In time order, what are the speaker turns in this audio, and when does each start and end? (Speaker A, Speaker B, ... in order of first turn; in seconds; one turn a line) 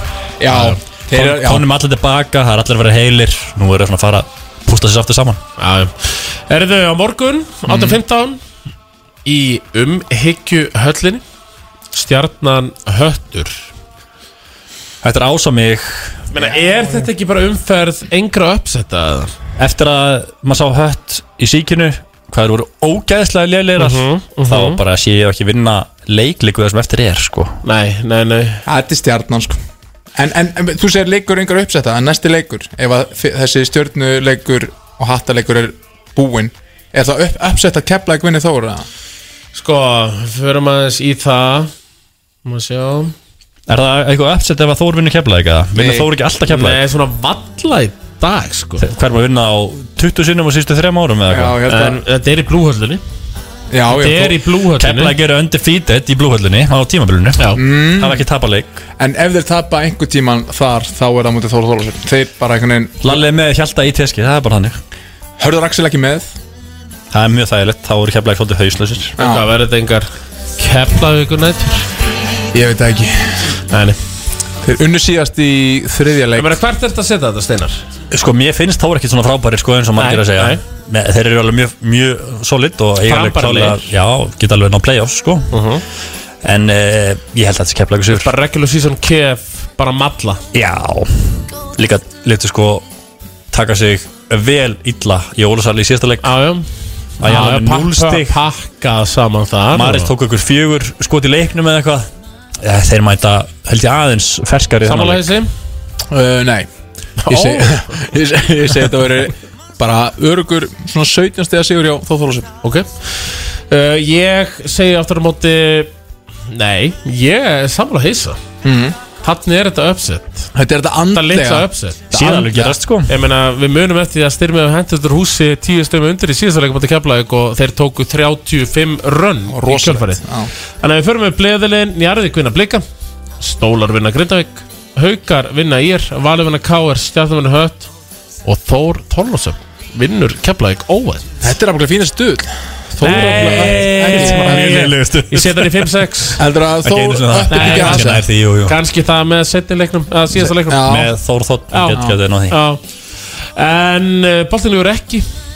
Speaker A: 0.4-1.7
Speaker B: 0.5-0.8
Speaker C: 1.1-5.4
Speaker B: 5.6-8.4
Speaker B: 9.2-11.2
Speaker B: 11.9-13.7
Speaker C: 15.0-16.2
Speaker B: 16.3-19.3
Speaker A: 16.4-17.1
Speaker C: 19.6-27.6
Speaker B: 23.8-24.8
Speaker B: 27.6-28.6
Speaker A: 28.6-29.6
Speaker A: 30.1-38.9
Speaker B: 39.5-41.7
Speaker B: 42.4-43.1
Speaker C: 43.7-46.8
Speaker A: 45.8-46.1
Speaker B: 46.5-48.8
Speaker C: 48.8-51.6
Speaker A: 51.3-52.0
Speaker B: 51.6-53.0
Speaker A: 53.7-54.4
Speaker B: 53.9-55.1
Speaker C: 54.8-58.8
Speaker B: 57.4-57.6
Speaker A: 57.5-58.2
Speaker A: 59.0-63.2
Speaker C: 63.0-64.8
Speaker A: 65.4-66.3
Speaker C: 67.1-69.2
Speaker B: 69.2-71.8
Speaker A: 69.2-69.5
Speaker A: 72.5-73.5
Speaker B: 73.7-74.0
Speaker A: 74.6-76.6
Speaker B: 76.3-77.8
Speaker C: 78.1-85.6
Speaker B: 80.0-80.6
Speaker B: 83.0-83.9
Speaker B: 85.5-85.8
Speaker C: 86.4-88.3
Speaker B: 88.1-90.4
Speaker C: 90.5-92.8
Speaker C: 93.5-96.3
Speaker B: 96.2-96.6
Speaker C: 97.2-98.4
Speaker B: 97.2-100.1
Speaker C: 99.7-102.1
Speaker C: 102.6-105.4
Speaker B: 104.8-105.5
Speaker A: 106.1-106.7
Speaker B: 107.2-108.0
Speaker A: 107.3-112.5
Speaker B: 112.6-115.9
Speaker B: 116.5-118.4
Speaker A: 118.6-119.0
Speaker B: 119.2-120.5
Speaker A: 120.5-122.7
Speaker B: 121.1-130.2
Speaker C: 122.1-123.1
Speaker A: 129.5-130.5
Speaker B: 130.8-132.8
Speaker B: 133.4-137.9
Speaker B: 138.4-141.3
Speaker A: 141.4-144.7
Speaker B: 143.0-146.4
Speaker C: 143.4-146.0
Speaker A: 146.4-148.2
Speaker C: 146.8-148.8
Speaker B: 147.5-151.0
Speaker A: 150.6-151.1
Speaker C: 150.8-152.6
Speaker B: 151.7-152.8
Speaker B: 153.6-155.3